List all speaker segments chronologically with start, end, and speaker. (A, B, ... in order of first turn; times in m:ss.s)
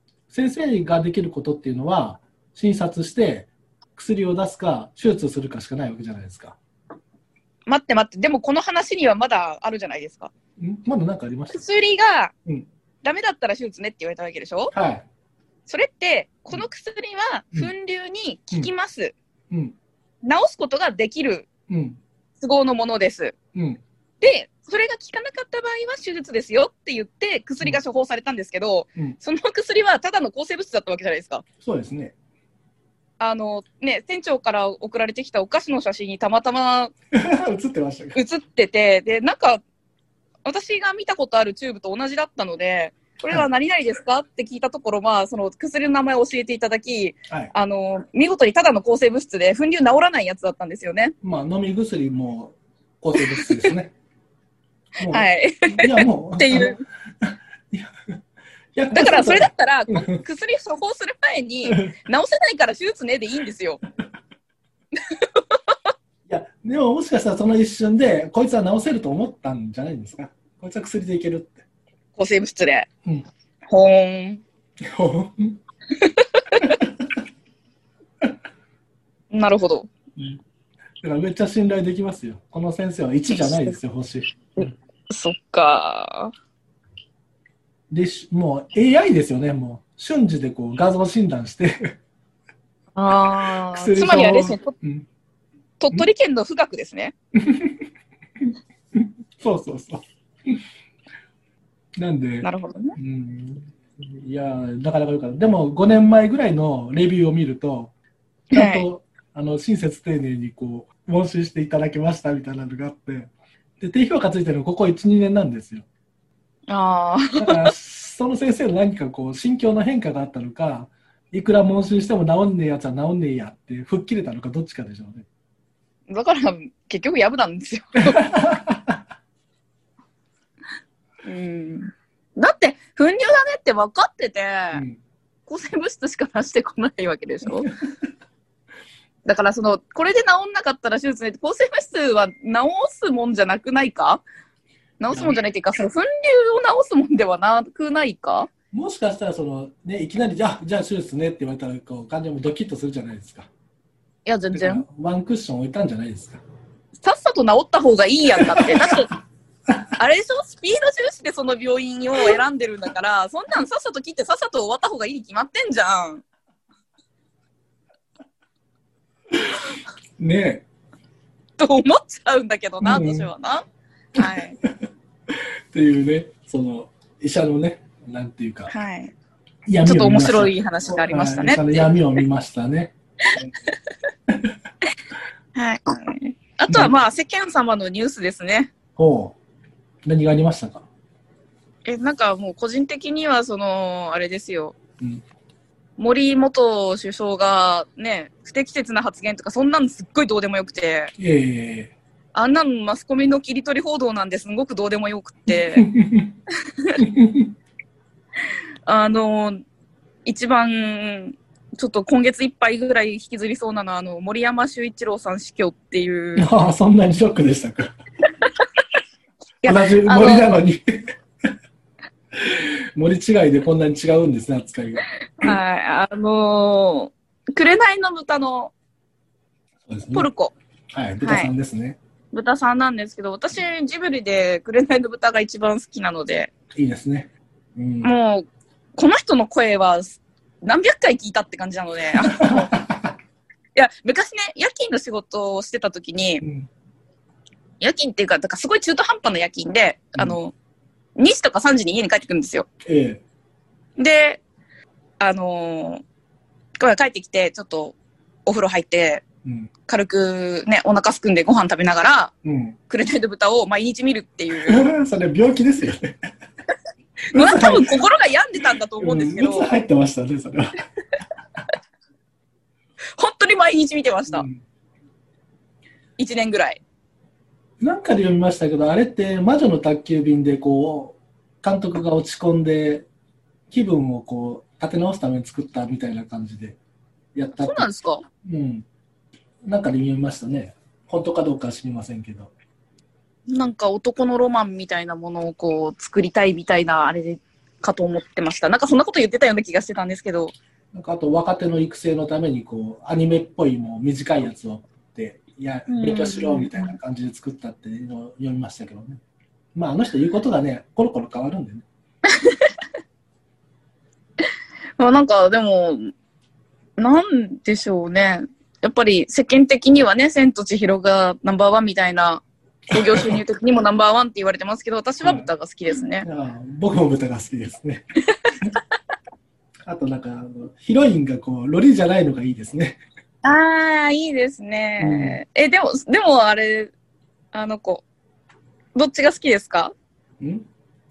0:00.3-0:06.6 A
0:07.7-0:10.3 B
0:10.6-0:11.6 A
0:11.5-0:12.3 B
0:13.0-0:14.7 B
0:14.7-0:15.0 A
0:15.7-0:19.2 B
0:19.5-0:19.8 A
0:20.2-0:21.5 B
0:21.7-0:22.0 A
0:22.4-0:23.4 B
0:23.5-0:23.8 A
0:24.2-0:31.4 B
0:31.6-0:32.1 A
0:33.2-0:36.9 B
0:37.1-0:38.2 A
0:38.2-0:39.6 B
0:40.4-0:51.2 B
0:51.2-0:53.9 A
0:53.2-0:53.7 B
0:55.0-0:57.9 A
0:55.1-0:56.8 B
0:58.8-1:00.2 A
0:58.9-1:03.8 B
1:01.7-1:01.9 A
1:05.1-1:05.4 B
1:06.3-1:11.6 A
1:12.2-1:12.9 B
1:13.7-1:14.4 B
1:14.8-1:15.6 A
1:16.0-1:16.8 B
1:16.6-1:16.9 A
1:19.3-1:19.9 B
1:20.2-1:20.4 A
1:21.0-1:24.7 A
1:24.6-1:26.3 B
1:27.9-1:32.0 A
1:33.0-1:34.7 B
1:33.7-1:35.1 A
1:35.8-1:37.1 B
1:37.4-1:37.9 A
1:38.4-1:40.6 A
1:42.0-1:47.9 A
1:42.4-1:43.0 B
1:48.5-1:55.9 A
1:48.5-1:48.9 B
1:56.7-1:57.7 B
1:57.4-2:05.3 A
2:06.1-2:08.4 B
2:08.0-2:09.0 A
2:11.2-2:14.8 B
2:14.7-2:15.0 A
2:15.5-2:17.7 B
2:19.2-2:24.2 B
2:25.0-2:28.5 B
2:25.1-2:25.4 A
2:28.7-2:33.5 A
2:34.3-2:34.8 B
2:34.5-2:36.4 A
2:37.0-2:39.1 B
2:38.4-2:39.0 A
2:40.0-2:46.2 B
2:49.3-2:49.6 A
2:50.2-2:50.6 A
2:51.6-2:53.6 B
2:52.8-2:53.3 A
2:54.2-2:54.6 B
2:54.2-2:54.7 A
2:55.3-2:58.7 A
2:58.7-2:59.1 B
2:59.7-3:03.5 A
2:59.8-3:01.9 B
3:05.6-3:08.7 B
3:06.7-3:06.9 A
3:09.0-3:09.4 A
3:10.0-3:10.8 A
3:11.8-3:14.8 B
3:16.0-3:21.1 B
3:21.2-3:21.9 A
3:22.4-3:25.9 B
3:25.5-3:26.3 A
3:27.0-3:27.5 A
3:28.9-3:29.6 B
3:30.2-3:36.5 B
3:36.4-3:37.9 A
3:39.6-3:40.6 B
3:39.6-3:41.1 A
3:42.3-3:45.6 A
3:45.4-3:48.7 B
3:49.9-3:50.3 A
3:50.1-3:50.6 B
3:50.9-3:52.0 A
3:51.2-3:51.5 B
3:52.3-3:56.5 B
3:56.7-3:58.1 A
3:58.0-4:02.7 B
4:02.2-4:03.1 A
4:03.8-4:06.4 B
4:06.4-4:06.7 A
4:07.8-4:10.6 B
4:11.2-4:12.7 B
4:12.8-4:13.2 A
4:14.0-4:14.4 B
4:15.2-4:16.0 B
4:16.8-4:19.2 B
4:19.4-4:19.7 A
4:19.9-4:22.3 B
4:22.4-4:22.8 A
4:22.9-4:24.8 B
4:24.6-4:26.2 A
4:27.3-4:28.0 A
4:27.3-4:29.8 B
4:29.0-4:30.8 A
4:33.2-4:34.5 B
4:34.3-4:34.6 A
4:36.2-4:36.8 B
4:37.8-4:43.1 A
4:43.7-4:46.8 A
4:47.4-4:47.9 A
4:47.6-4:48.2 B
4:48.4-4:48.9 A
4:49.6-4:52.5 A
4:53.5-5:00.6 B
5:00.9-5:09.2 A
5:05.9-5:06.9 B
5:09.8-5:11.8 A
5:12.3-5:12.7 B
5:15.0-5:16.1 B
5:17.0-5:26.3 B
5:22.9-5:23.4 A
5:25.2-5:25.5 A
5:26.2-5:28.0 A
5:29.8-5:33.0 A
5:33.4-5:36.9 B
5:35.0-5:35.4 A
5:37.5-5:38.0 B
5:39.0-5:39.9 B
5:40.4-5:40.7 A